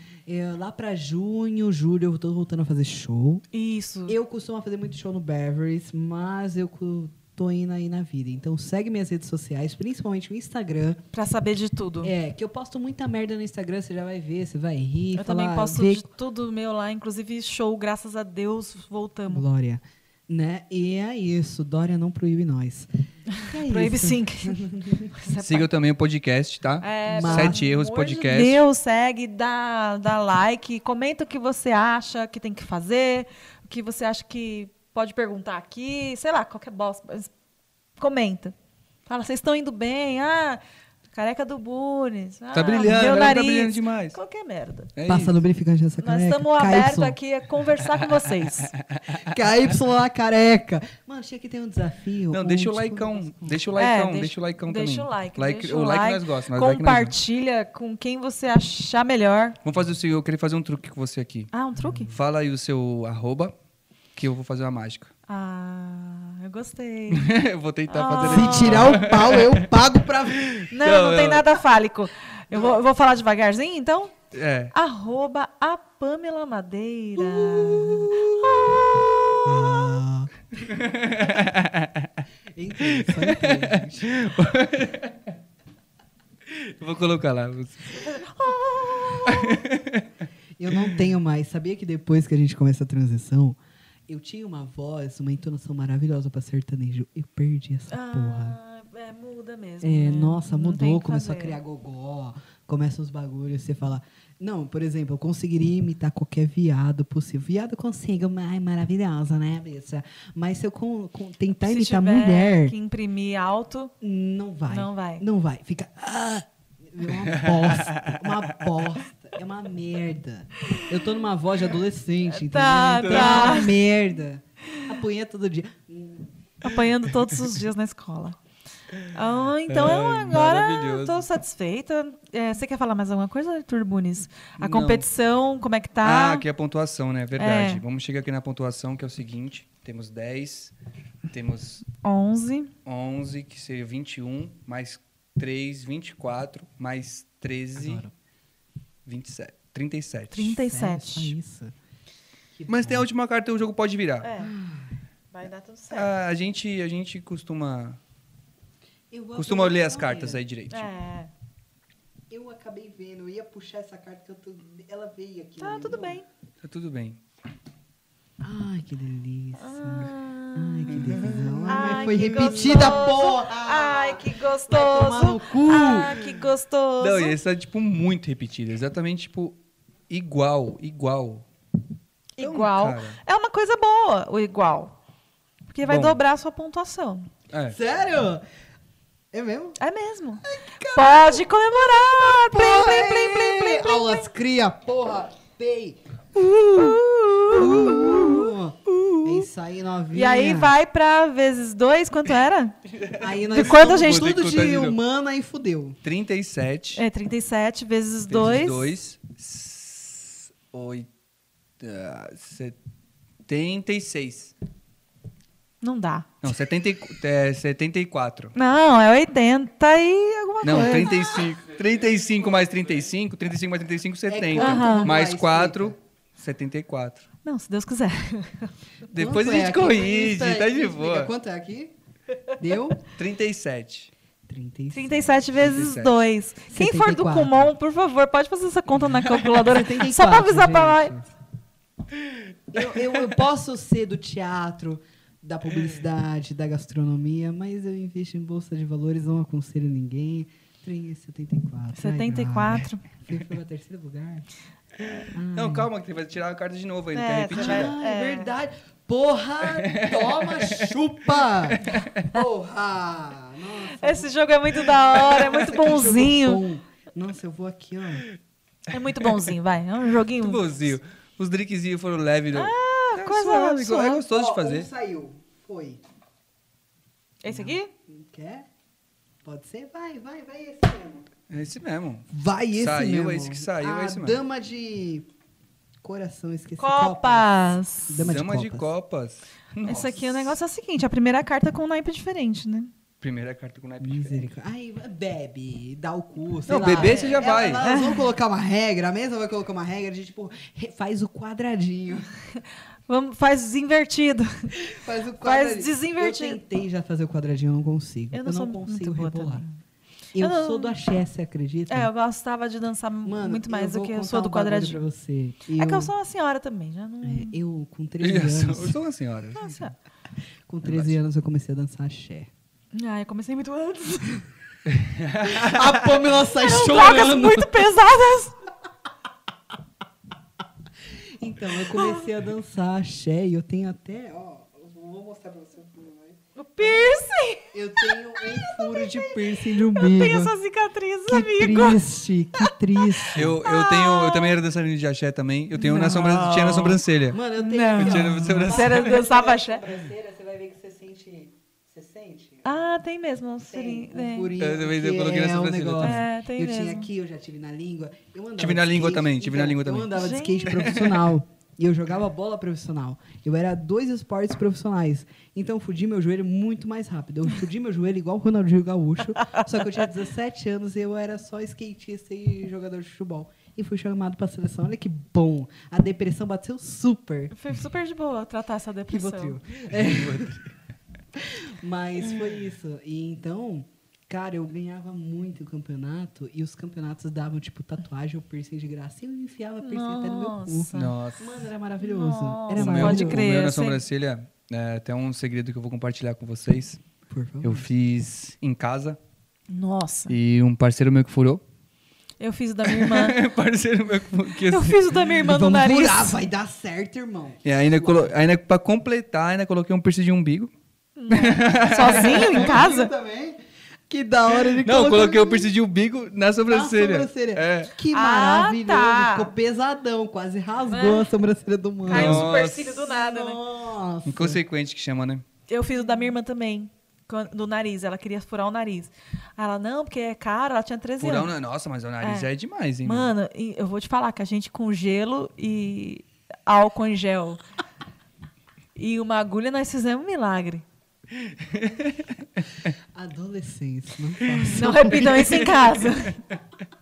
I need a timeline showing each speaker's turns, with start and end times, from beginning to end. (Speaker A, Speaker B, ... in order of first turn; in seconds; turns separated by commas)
Speaker A: 0.3-3.5, Speaker B: 3.5-4.2, Speaker A: 4.1-11.0, Speaker B: 11.1-12.1, Speaker A: 12.0-16.1, Speaker B: 15.2-19.4, Speaker A: 19.3-22.9, Speaker B: 23.3-25.7, Speaker A: 23.4-25.1, Speaker C: 25.4-28.6, Speaker B: 26.8-37.3, Speaker A: 27.1-27.6, Speaker B: 38.0-38.5, Speaker B: 39.1-44.9, Speaker C: 42.5-44.2, Speaker C: 45.0-45.4, Speaker A: 45.1-47.2, Speaker B: 46.0-48.7, Speaker C: 48.0-49.3, Speaker A: 49.1-53.8, Speaker C: 52.3-57.1, Speaker B: 53.8-59.6, Speaker C: 59.6-61.5, Speaker B: 61.5-62.1, Speaker A: 61.8-62.2, Speaker C: 62.1-63.5, Speaker C: 64.2-65.1, Speaker B: 65.3-67.3, Speaker C: 67.1-69.7, Speaker B: 67.9-69.0, Speaker A: 68.2-70.5, Speaker C: 70.3-71.5, Speaker B: 70.7-74.2, Speaker A: 72.5-72.8, Speaker C: 74.3-74.7, Speaker B: 74.7-80.0, Speaker A: 77.2-78.8, Speaker A: 79.4-80.3, Speaker C: 80.6-82.2, Speaker A: 82.5-84.1, Speaker C: 82.8-85.3, Speaker C: 86.5-88.1, Speaker B: 87.9-89.7, Speaker C: 89.2-90.1, Speaker A: 90.6-98.6, Speaker C: 90.7-91.0, Speaker B: 97.9-101.6, Speaker A: 99.8-112.8, Speaker B: 111.6-113.9, Speaker A: 114.0-126.4, Speaker B: 114.7-115.2, Speaker C: 117.1-118.6, Speaker B: 120.7-121.1, Speaker B: 122.3-123.8, Speaker C: 123.0-123.7, Speaker B: 126.6-128.4, Speaker B: 129.1-136.4, Speaker C: 129.7-131.2, Speaker C: 134.6-135.1, Speaker C: 136.0-140.7, Speaker B: 137.4-137.8, Speaker C: 141.3-141.8, Speaker B: 142.0-142.7, Speaker C: 142.8-148.0, Speaker A: 147.8-148.1, Speaker C: 149.1-150.5, Speaker B: 150.3-151.3, Speaker A: 150.5-151.8, Speaker A: 152.6-153.1, Speaker C: 152.7-154.3, Speaker B: 154.2-154.5, Speaker A: 154.4-155.0, Speaker B: 155.3-156.1, Speaker C: 155.9-158.0, Speaker A: 159.1-160.4, Speaker C: 159.3-160.9, Speaker B: 160.7-161.3, Speaker A: 162.3-166.2, Speaker B: 165.6-166.2, Speaker C: 166.6-167.2, Speaker A: 168.4-176.2, Speaker B: 169.6-177.4, Speaker C: 170.9-173.1, Speaker C: 177.0-179.6, Speaker C: 180.1-181.5, Speaker B: 182.4-184.9, Speaker C: 182.4-183.2, Speaker B: 185.7-187.3, Speaker C: 185.9-186.2, Speaker A: 187.7-188.4, Speaker A: 189.3-189.8, Speaker B: 189.8-194.3, Speaker A: 190.4-200.8, Speaker B: 196.4-199.5, Speaker B: 200.1-202.8, Speaker A: 203.1-206.0, Speaker B: 203.4-204.4, Speaker C: 203.6-205.0, Speaker C: 206.0-207.0, Speaker B: 207.0-208.9, Speaker C: 208.3-211.1, Speaker C: 211.8-212.8, Speaker C: 213.5-214.5, Speaker B: 215.8-216.3, Speaker C: 216.4-218.5, Speaker B: 218.6-221.3, Speaker C: 220.6-227.3, Speaker A: 220.7-221.6, Speaker A: 224.3-226.0, Speaker B: 224.6-225.1, Speaker B: 227.4-228.7, Speaker A: 229.1-231.9, Speaker C: 229.1-231.3, Speaker A: 232.6-233.0, Speaker C: 233.1-234.1, Speaker A: 234.5-235.6, Speaker B: 234.9-241.2, Speaker C: 235.6-236.2, Speaker A: 236.7-237.7, Speaker A: 239.4-241.3, Speaker A: 242.7-254.5, Speaker B: 252.0-253.0, Speaker A: 255.3-255.9, Speaker C: 255.5-257.9, Speaker B: 257.1-258.5, Speaker A: 257.5-268.2, Speaker C: 259.8-260.9, Speaker C: 261.7-262.3, Speaker B: 264.0-266.6, Speaker B: 268.9-270.9, Speaker C: 270.4-274.9, Speaker B: 272.5-274.2, Speaker A: 274.3-276.0, Speaker B: 277.4-277.9, Speaker A: 277.5-278.6, Speaker A: 279.4-281.3, Speaker C: 281.5-284.4, Speaker A: 282.3-285.3, Speaker A: 286.0-287.5, Speaker B: 286.8-288.3, Speaker A: 288.1-288.9, Speaker C: 288.2-290.5, Speaker B: 289.9-292.9, Speaker C: 293.2-294.5, Speaker A: 294.0-302.3, Speaker C: 296.7-297.8, Speaker B: 296.7-298.3, Speaker B: 303.1-304.9, Speaker A: 304.8-309.6, Speaker B: 305.4-306.6, Speaker B: 308.3-309.8, Speaker A: 310.4-312.1, Speaker B: 310.4-311.0, Speaker B: 311.9-315.0, Speaker A: 313.2-316.1, Speaker B: 315.8-317.6, Speaker A: 317.2-319.0, Speaker C: 318.2-319.8, Speaker B: 319.6-319.9, Speaker A: 320.7-322.5, Speaker C: 320.8-321.2, Speaker B: 322.9-324.4, Speaker C: 324.9-326.1, Speaker A: 325.4-327.8, Speaker B: 326.5-328.6, Speaker A: 331.4-337.1, Speaker B: 331.9-332.2, Speaker B: 336.6-342.0, Speaker A: 337.7-340.5, Speaker A: 341.3-343.6, Speaker B: 342.6-344.6, Speaker C: 343.3-347.4, Speaker B: 345.7-347.0, Speaker A: 347.3-352.8, Speaker B: 347.6-349.9, Speaker C: 348.0-349.2, Speaker B: 352.6-354.6, Speaker A: 353.7-377.6, Speaker C: 354.6-356.2, Speaker B: 356.0-357.1, Speaker C: 358.6-361.2, Speaker B: 360.1-360.9, Speaker B: 377.5-379.6, Speaker A: 379.1-380.6, Speaker C: 380.0-380.6, Speaker A: 381.3-393.5, Speaker B: 389.8-391.1, Speaker C: 390.9-391.6, Speaker B: 392.0-394.0, Speaker C: 392.8-397.0, Speaker A: 397.3-397.9, Speaker C: 397.6-399.2, Speaker B: 399.7-400.4, Speaker C: 400.3-401.6, Speaker B: 402.4-403.4, Speaker C: 402.8-405.0, Speaker B: 404.7-406.4, Speaker A: 405.3-408.3, Speaker C: 407.6-410.7, Speaker B: 411.2-413.1, Speaker C: 411.3-412.8, Speaker A: 411.5-415.7, Speaker C: 414.8-417.9, Speaker A: 416.7-424.6, Speaker B: 418.1-419.5, Speaker B: 420.9-421.3, Speaker B: 422.1-423.6, Speaker C: 422.1-423.0, Speaker C: 424.3-425.4, Speaker B: 425.7-431.5, Speaker C: 431.2-433.3, Speaker B: 432.2-432.5, Speaker B: 433.1-437.6, Speaker B: 439.0-440.8, Speaker C: 441.6-442.3, Speaker A: 443.1-445.9, Speaker B: 444.6-446.4